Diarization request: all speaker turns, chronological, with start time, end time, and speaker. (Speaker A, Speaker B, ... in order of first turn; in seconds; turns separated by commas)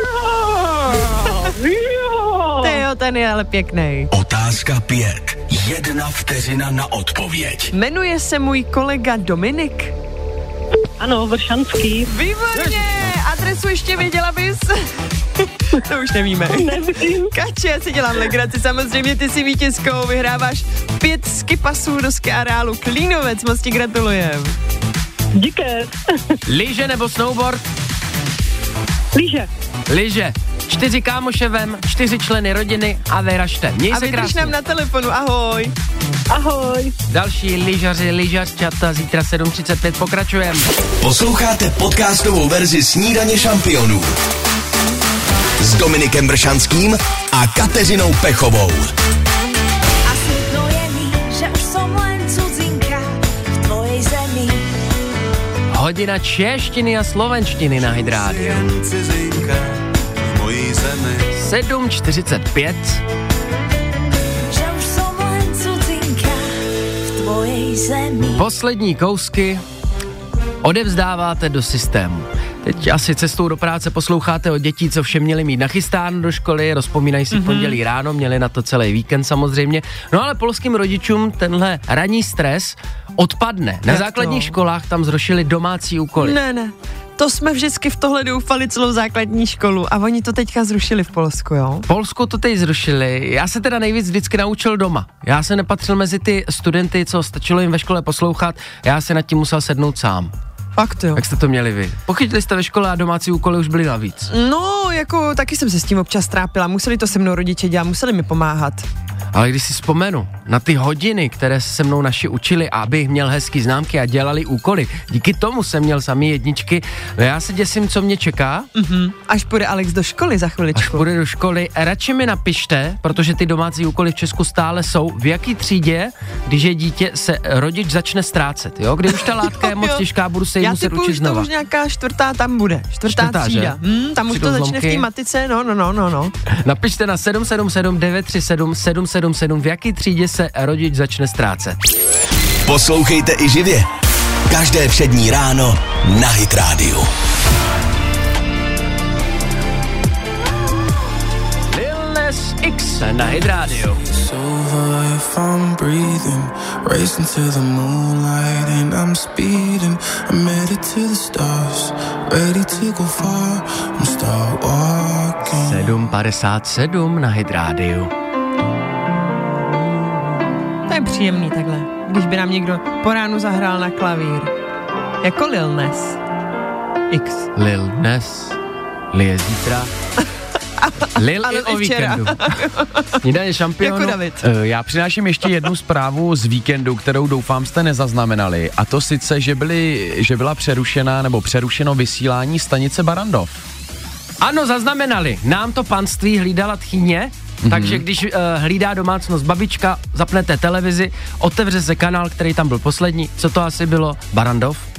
Speaker A: 2.6-4.1, Speaker B: 4.1-7.7, Speaker A: 7.7-9.9, Speaker C: 11.0-12.1, Speaker A: 12.1-14.8, Speaker D: 12.6-12.8, Speaker A: 15.4-24.5, Speaker C: 25.4-25.8, Speaker D: 26.4-27.6, Speaker C: 29.1-29.4, Speaker D: 29.9-34.5, Speaker A: 33.9-35.7, Speaker C: 36.3-36.9, Speaker D: 37.1-40.7, Speaker B: 41.0-44.1, Speaker B: 45.6-48.9, Speaker E: 50.0-54.7, Speaker D: 55.7-58.8, Speaker F: 58.6-59.6, Speaker F: 60.3-61.1, Speaker D: 61.3-63.0, Speaker E: 64.5-68.5, Speaker D: 68.3-69.6, Speaker D: 70.6-86.4, Speaker A: 77.3-77.8, Speaker A: 83.9-84.5, Speaker A: 86.2-91.9, Speaker D: 91.9-100.3, Speaker A: 100.8-101.2, Speaker D: 101.1-104.3, Speaker A: 104.3-108.8, Speaker D: 109.3-118.7, Speaker A: 118.7-121.0, Speaker D: 120.7-131.5, Speaker A: 129.5-130.0, Speaker A: 130.6-136.3, Speaker D: 133.1-133.8, Speaker D: 134.3-135.1, Speaker D: 136.6-141.8, Speaker B: 142.6-143.9, Speaker B: 144.5-147.1, Speaker D: 151.7-154.0, Speaker F: 153.4-166.0, Speaker D: 165.5-168.1, Speaker A: 170.9-174.5, Speaker A: 175.2-176.2, Speaker A: 177.1-177.5, Speaker D: 177.6-178.6, Speaker D: 179.1-179.9, Speaker A: 180.8-183.2, Speaker D: 181.2-182.6, Speaker D: 183.2-184.2, Speaker A: 183.8-184.4, Speaker G: 184.4-193.6, Speaker D: 194.4-204.9, Speaker G: 197.6-198.0